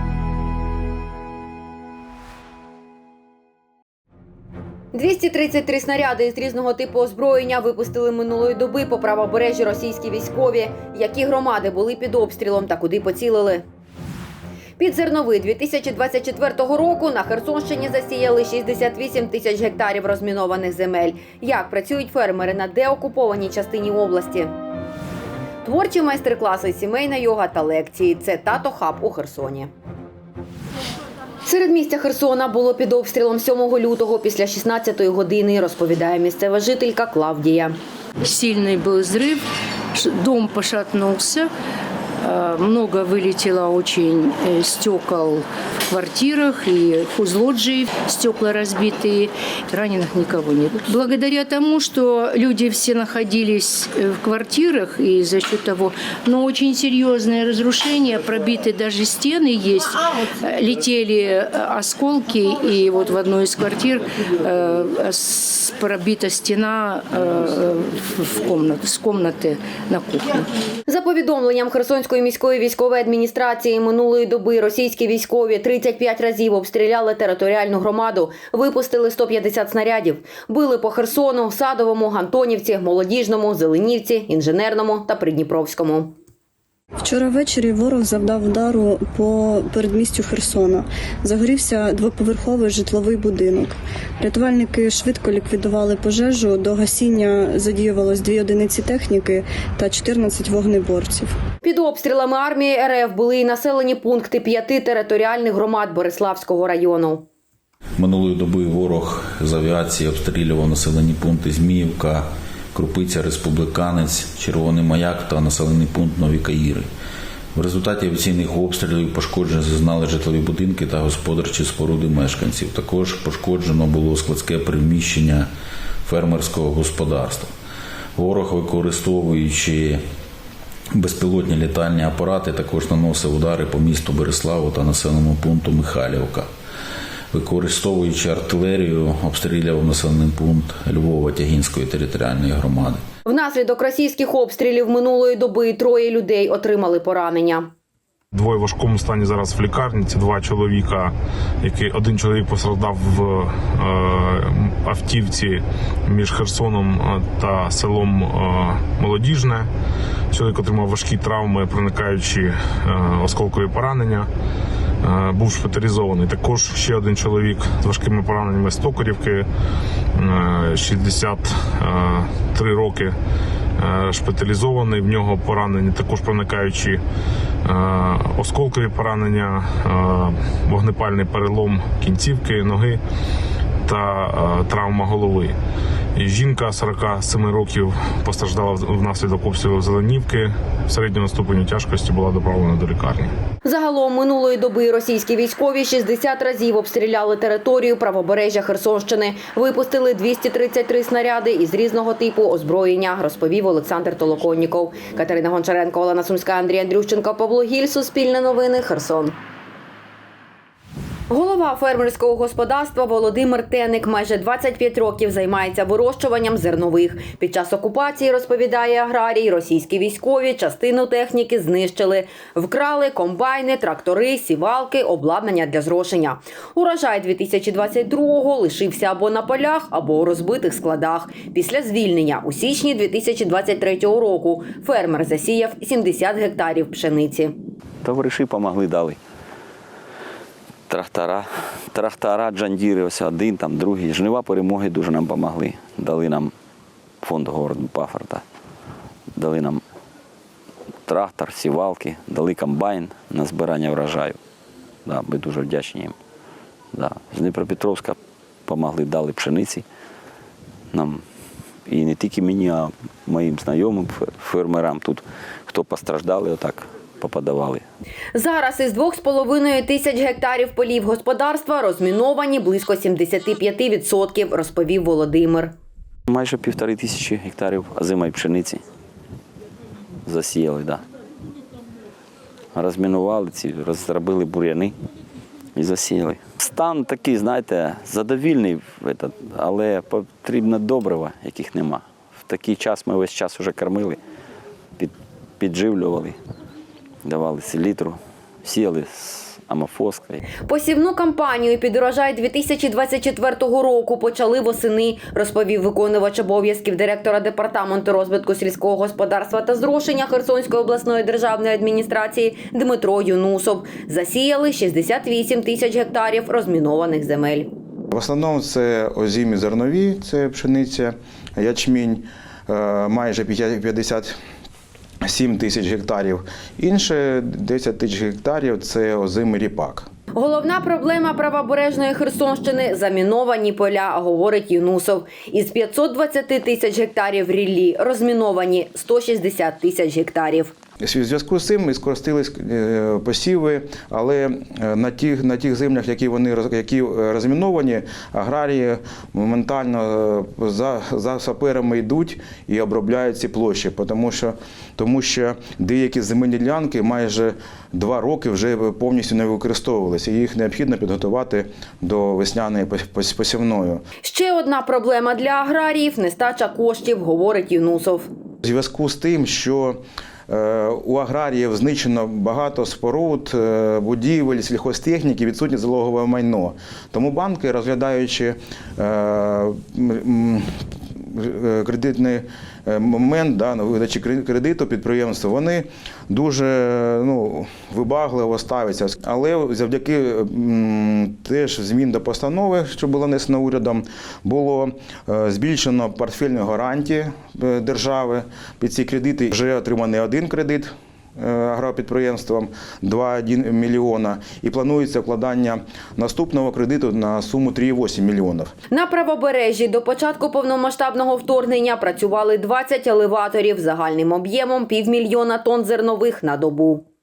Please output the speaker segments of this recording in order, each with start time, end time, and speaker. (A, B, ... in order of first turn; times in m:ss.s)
0:04.9-0:13.6 A
0:14.8-0:24.5 A
0:25.6-0:29.7 A
0:31.4-0:37.7 A
0:38.2-0:39.4 B
0:39.9-0:41.5 B
0:42.2-1:10.5 B
1:10.9-1:26.1 A
1:27.0-1:41.3 C
1:41.6-1:47.2 A
1:48.0-1:56.9 D
1:57.5-2:05.5 D
2:06.0-2:07.5 D
2:08.2-2:10.0 D
2:10.9-2:16.5 D
2:17.3-2:23.0 D
2:23.2-2:27.7 A
2:28.3-2:31.1 E
2:31.6-2:39.7 E
2:40.3-2:44.3 E
2:45.0-2:49.4 E
2:50.2-2:53.1 E
2:53.8-2:57.0 E
2:57.6-3:03.0 E
3:03.9-3:05.6 E
3:06.2-3:13.3 E
3:13.6-3:29.3 A
3:31.3-3:57.5 A
3:58.0-3:59.2 F
4:00.9-4:06.5 F
4:07.2-4:08.4 F
4:09.3-4:09.8 F
4:11.0-4:14.4 F
4:15.0-4:16.2 F
4:16.9-4:19.8 F
4:20.9-4:21.2 F
4:21.9-4:27.8 F
4:28.3-4:35.7 A
4:36.3-4:38.8 F
4:40.2-4:41.0 F
4:42.7-4:45.0 F
4:45.8-4:54.2 F
4:55.0-4:56.4 F
4:57.2-5:00.4 F
5:00.7-5:17.7 A
5:18.1-5:24.3 G
5:25.2-5:30.1 G
5:30.3-5:40.7 A
5:41.0-6:04.0 G
6:04.2-6:08.3 A
6:08.6-6:10.0 G
6:10.5-6:48.7 G
6:48.9-6:57.0 A